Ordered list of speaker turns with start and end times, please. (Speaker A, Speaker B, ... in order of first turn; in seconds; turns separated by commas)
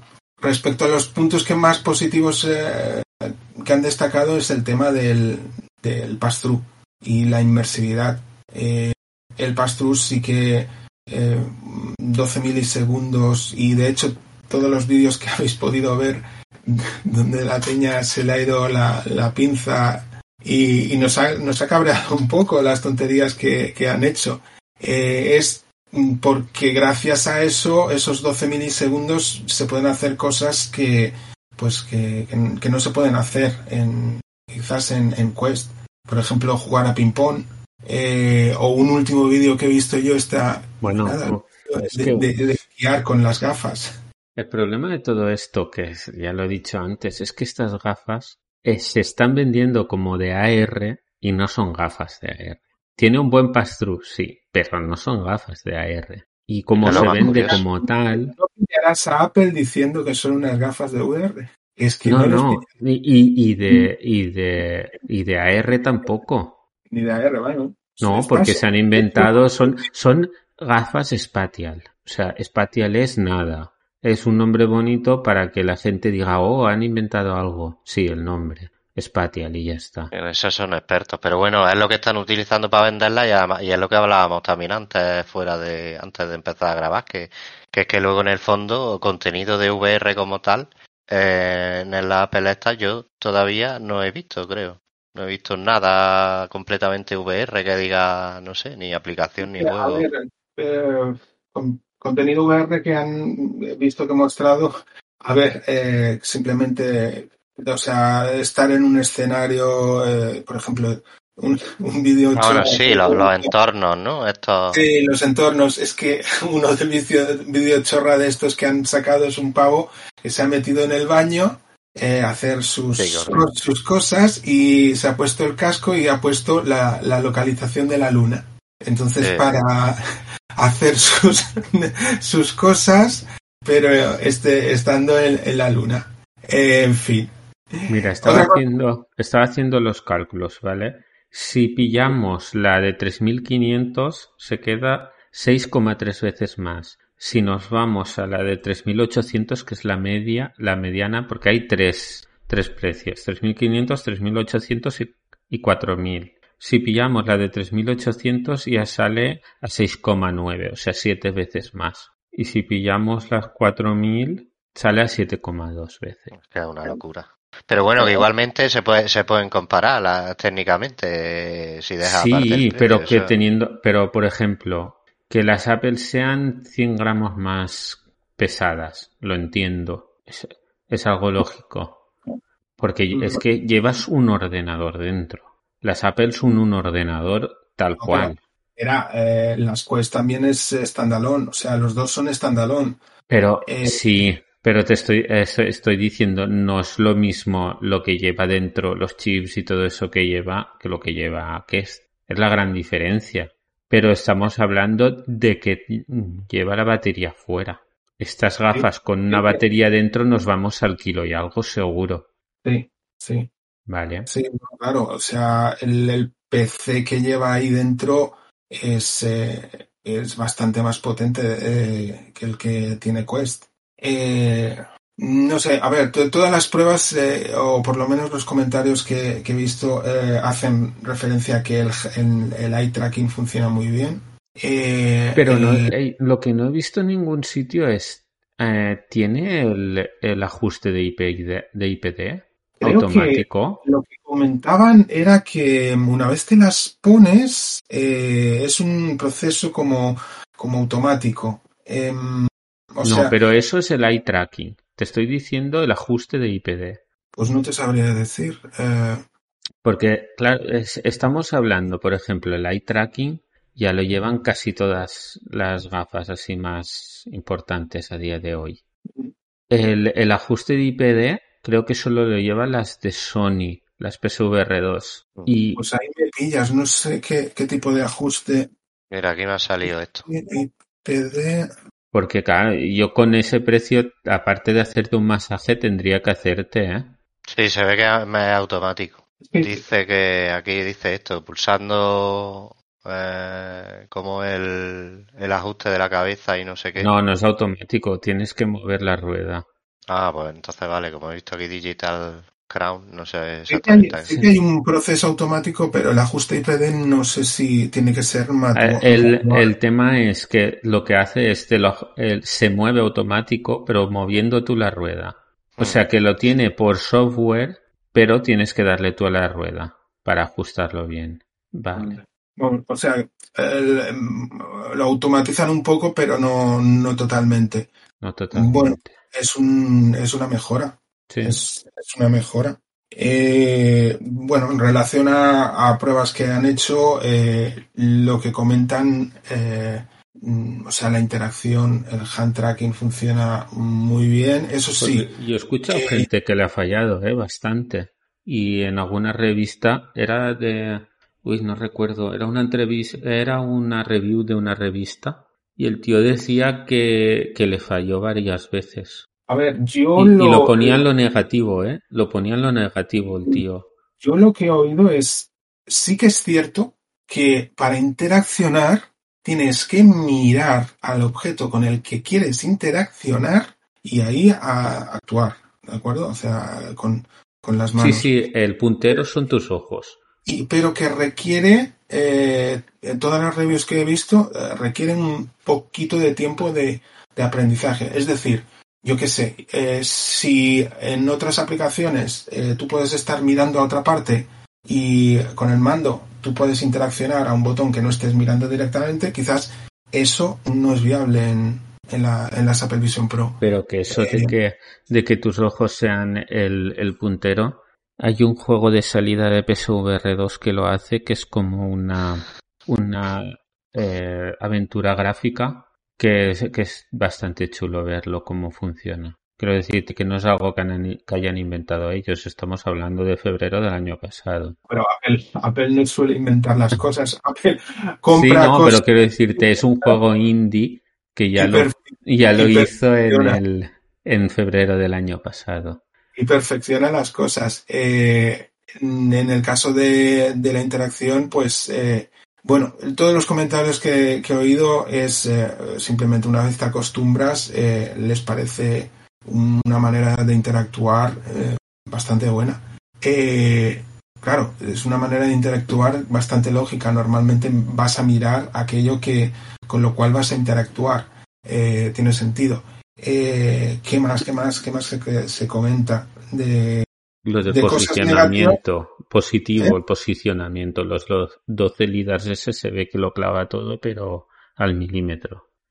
Speaker A: 0.4-43.9, Speaker B: 40.8-42.6, Speaker B: 44.4-58.3, Speaker C: 56.8-57.6, Speaker A: 56.8-62.7, Speaker B: 62.0-66.6, Speaker A: 66.9-69.8, Speaker B: 68.0-80.1, Speaker C: 80.1-100.1, Speaker A: 99.4-113.5, Speaker C: 112.3-114.8, Speaker A: 114.7-130.0, Speaker C: 123.0-123.4, Speaker C: 129.2-129.5, Speaker A: 130.6-137.3, Speaker B: 137.9-166.3, Speaker A: 138.2-138.6, Speaker C: 166.3-173.3, Speaker B: 172.0-182.1, Speaker B: 182.8-188.4, Speaker A: 183.1-183.4, Speaker A: 188.0-193.0, Speaker B: 193.3-212.3, Speaker A: 193.6-194.4, Speaker A: 208.7-209.6, Speaker A: 212.6-213.5, Speaker B: 213.9-214.3, Speaker A: 214.3-235.9, Speaker B: 235.3-243.8, Speaker A: 242.8-253.3, Speaker B: 253.0-257.0, Speaker A: 257.3-259.2, Speaker B: 259.8-268.8, Speaker B: 269.7-275.8, Speaker A: 275.8-278.7, Speaker C: 279.1-280.3, Speaker A: 279.8-281.7, Speaker B: 282.1-287.1, Speaker C: 287.5-297.1, Speaker A: 289.4-289.8, Speaker B: 296.9-299.6, Speaker C: 300.1-304.4, Speaker A: 303.7-309.7, Speaker B: 308.7-322.2, Speaker C: 315.8-316.0, Speaker A: 321.9-327.9, Speaker B: 328.2-329.2, Speaker A: 328.5-345.3, Speaker B: 331.3-331.6, Speaker B: 344.9-359.2, Speaker A: 345.9-346.3, Speaker A: 359.5-361.0, Speaker B: 360.1-363.9, Speaker A: 364.2-378.3, Speaker B: 378.0-380.2, Speaker A: 380.4-404.5, Speaker B: 403.6-424.8, Speaker A: 424.9-429.0, Speaker B: 428.3-436.0, Speaker A: 429.6-430.2, Speaker A: 431.6-433.6, Speaker A: 436.3-467.1, Speaker B: 467.4-475.7, Speaker A: 467.7-468.8